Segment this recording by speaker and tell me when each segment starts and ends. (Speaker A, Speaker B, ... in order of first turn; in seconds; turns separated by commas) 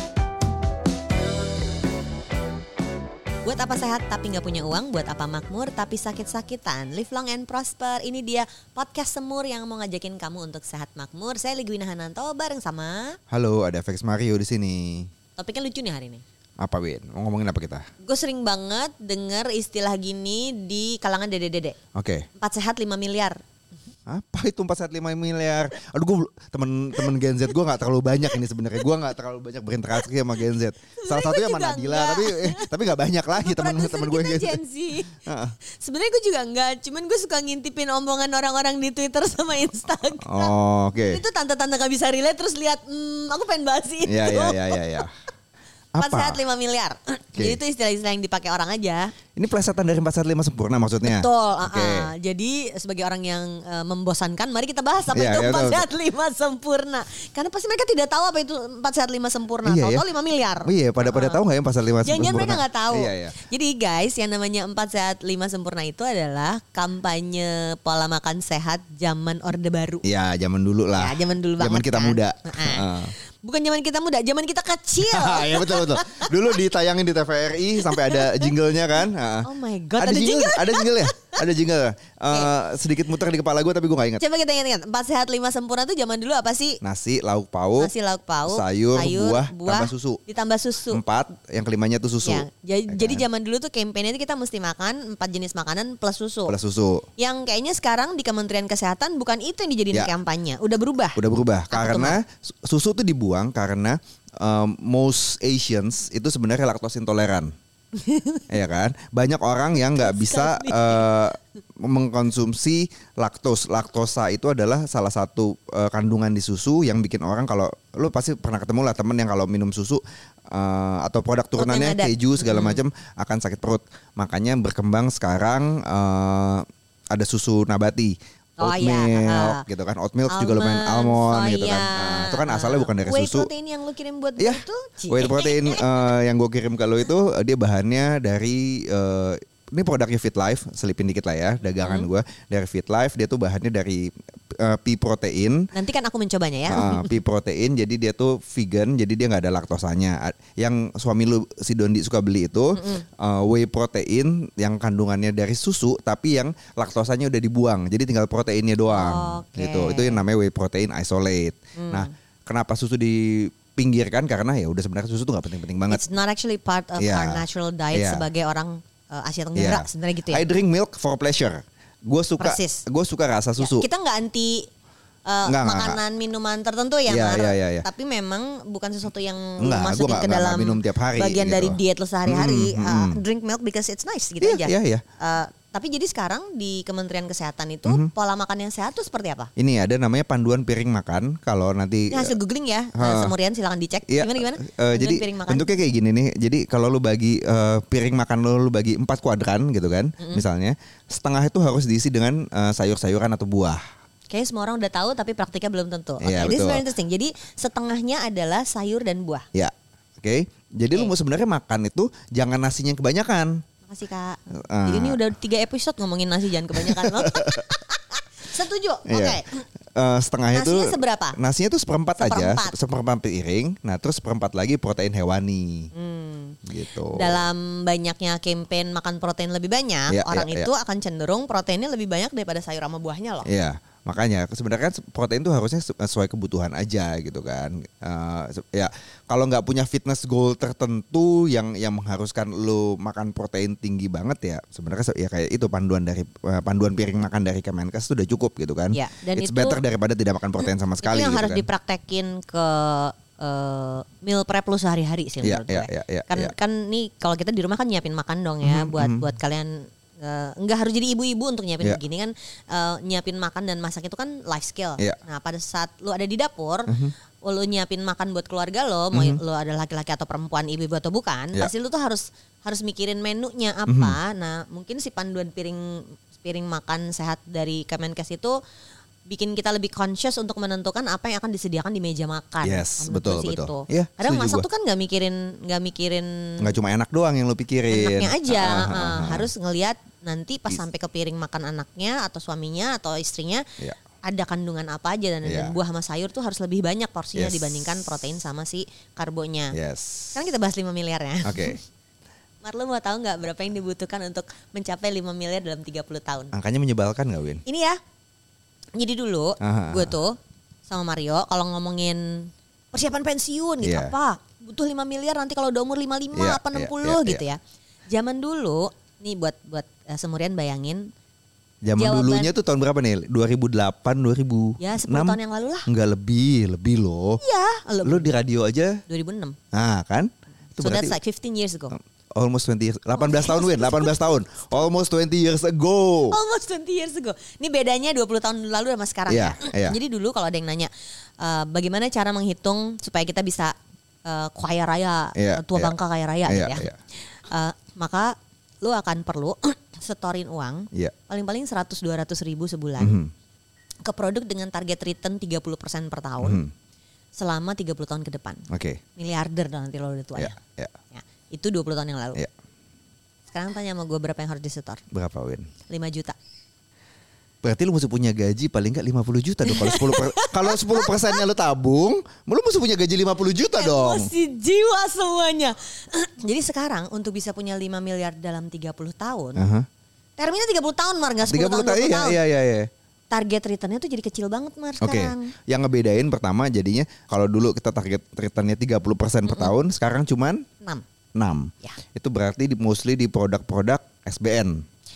Speaker A: 3.4-13.2, Speaker B: 13.3-15.1, Speaker A: 15.4-16.2, Speaker B: 16.6-17.9, Speaker A: 18.0-21.8, Speaker B: 21.9-22.3, Speaker A: 22.4-23.4, Speaker B: 24.1-34.6, Speaker A: 30.0-30.4, Speaker A: 31.0-32.7, Speaker A: 33.3-35.2, Speaker B: 35.2-35.6, Speaker A: 35.7-40.5, Speaker B: 40.2-41.2, Speaker A: 41.1-45.0, Speaker B: 44.0-45.1, Speaker B: 46.0-46.4, Speaker A: 46.0-49.1, Speaker B: 49.4-52.1, Speaker A: 51.0-61.4, Speaker B: 55.1-55.9, Speaker B: 59.6-60.0, Speaker B: 60.6-63.3, Speaker A: 62.0-70.0, Speaker B: 70.0-73.1, Speaker A: 71.0-76.6, Speaker B: 75.0-84.2, Speaker A: 77.8-78.5, Speaker A: 79.4-81.4, Speaker A: 84.2-86.8, Speaker B: 86.8-87.9, Speaker A: 87.8-91.0, Speaker B: 88.5-90.2, Speaker B: 90.9-93.2, Speaker A: 92.2-96.6, Speaker B: 96.5-97.0, Speaker A: 97.2-102.2, Speaker B: 101.2-107.5, Speaker A: 107.9-108.5, Speaker B: 108.5-133.5, Speaker A: 109.9-111.2, Speaker A: 121.6-122.8, Speaker A: 128.6-129.6, Speaker A: 130.3-136.1, Speaker B: 134.4-145.7, Speaker A: 141.8-142.1, Speaker A: 145.7-147.2, Speaker B: 146.7-166.0, Speaker A: 152.8-153.0, Speaker A: 158.9-160.2, Speaker A: 161.8-162.1, Speaker A: 165.9-170.5, Speaker B: 167.0-168.2, Speaker B: 169.6-173.9, Speaker A: 172.4-172.8, Speaker A: 173.6-174.7, Speaker A: 175.3-189.5, Speaker B: 175.4-176.0, Speaker B: 177.1-177.8, Speaker B: 179.6-183.2, Speaker B: 184.4-185.0, Speaker B: 187.8-188.1, Speaker B: 189.6-192.3, Speaker A: 192.1-195.7, Speaker B: 192.9-193.3, Speaker B: 194.1-203.8, Speaker A: 200.2-200.4, Speaker A: 204.3-209.5, Speaker B: 206.2-206.8, Speaker B: 209.5-213.6, Speaker A: 213.8-219.6, Speaker B: 214.7-215.2, Speaker B: 216.8-217.7, Speaker B: 219.1-219.4, Speaker B: 220.0-225.9, Speaker A: 220.5-221.4, Speaker A: 222.2-222.8, Speaker A: 225.9-233.5, Speaker B: 226.7-227.4, Speaker B: 230.1-230.7, Speaker B: 233.4-251.7, Speaker A: 248.9-249.8, Speaker A: 250.6-278.6, Speaker B: 255.4-256.5, Speaker B: 258.6-259.2, Speaker B: 266.9-267.1, Speaker B: 269.1-269.4, Speaker B: 273.9-274.2, Speaker A: 279.3-286.7, Speaker B: 282.6-284.6, Speaker B: 286.6-289.5, Speaker A: 287.9-293.6, Speaker A: 294.2-299.8, Speaker B: 295.4-295.8, Speaker B: 297.4-298.0, Speaker B: 299.7-300.4, Speaker A: 300.3-301.8, Speaker B: 301.4-301.8, Speaker A: 302.6-306.6, Speaker B: 306.5-307.6, Speaker A: 307.7-308.0, Speaker A: 309.0-321.1, Speaker B: 309.6-310.1, Speaker B: 313.8-314.1, Speaker B: 316.4-317.4, Speaker B: 321.9-327.4, Speaker A: 322.0-322.5, Speaker A: 324.8-325.9, Speaker A: 327.4-328.3, Speaker B: 328.0-329.0, Speaker A: 329.1-329.6, Speaker B: 329.7-331.1, Speaker A: 330.8-331.9, Speaker B: 332.4-336.4, Speaker A: 333.2-334.8, Speaker A: 336.3-346.9, Speaker B: 339.3-340.0, Speaker B: 345.4-345.9, Speaker B: 346.4-347.0, Speaker A: 347.5-353.2, Speaker B: 353.0-353.3, Speaker A: 354.0-356.6, Speaker B: 356.4-356.7, Speaker A: 357.4-360.6, Speaker B: 358.7-359.0, Speaker B: 360.4-360.9, Speaker A: 361.1-362.4, Speaker A: 363.5-365.0, Speaker B: 365.1-365.7, Speaker A: 365.9-366.4, Speaker B: 367.6-374.3, Speaker A: 369.6-371.4, Speaker A: 373.7-379.6, Speaker B: 379.6-379.9, Speaker A: 380.4-382.4, Speaker B: 381.5-382.9, Speaker A: 383.3-385.5, Speaker B: 385.0-390.6, Speaker A: 389.4-389.7, Speaker B: 391.4-394.8